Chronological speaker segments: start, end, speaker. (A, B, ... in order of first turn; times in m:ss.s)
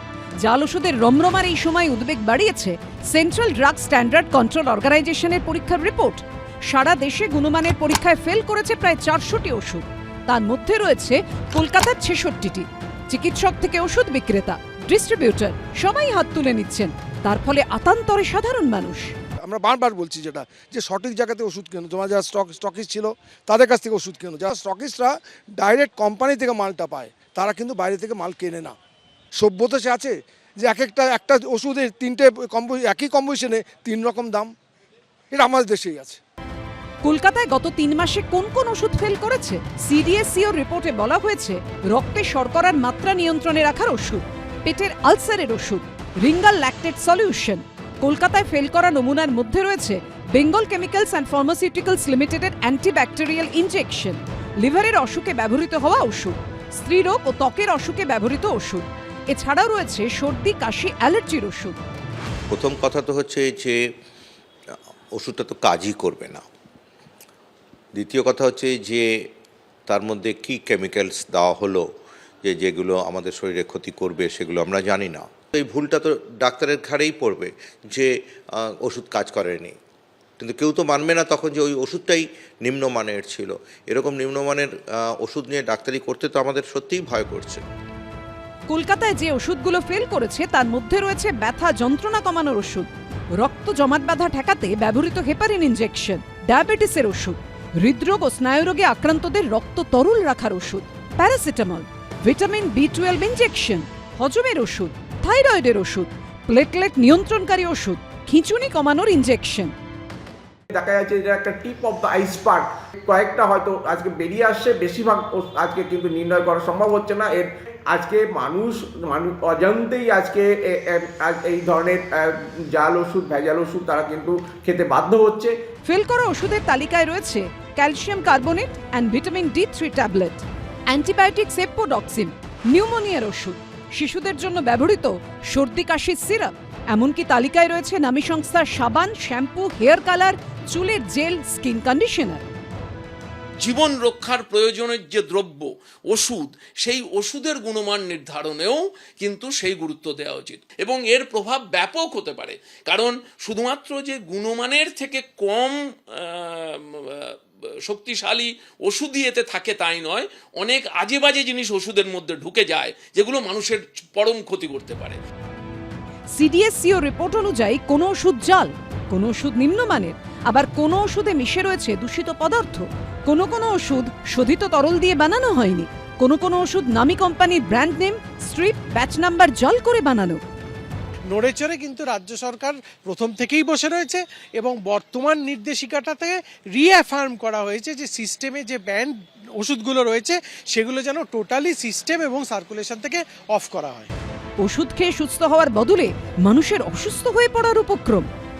0:00.4-0:19.1 A
0:19.4-0:28.7 B
0:29.4-0:34.5 B
0:35.3-0:36.2 B
0:37.0-1:01.8 A
1:02.5-1:03.8 C
1:05.1-1:06.4 C
1:07.9-1:09.1 C
1:09.9-1:11.8 C
1:12.4-1:19.7 C
1:20.4-1:27.6 C
1:28.7-1:49.7 A
1:50.7-2:05.6 D
2:05.8-2:22.4 A
2:23.6-2:37.3 E
2:37.8-2:45.2 E
2:46.3-3:00.4 A
3:01.3-3:14.1 F
3:14.6-3:18.3 A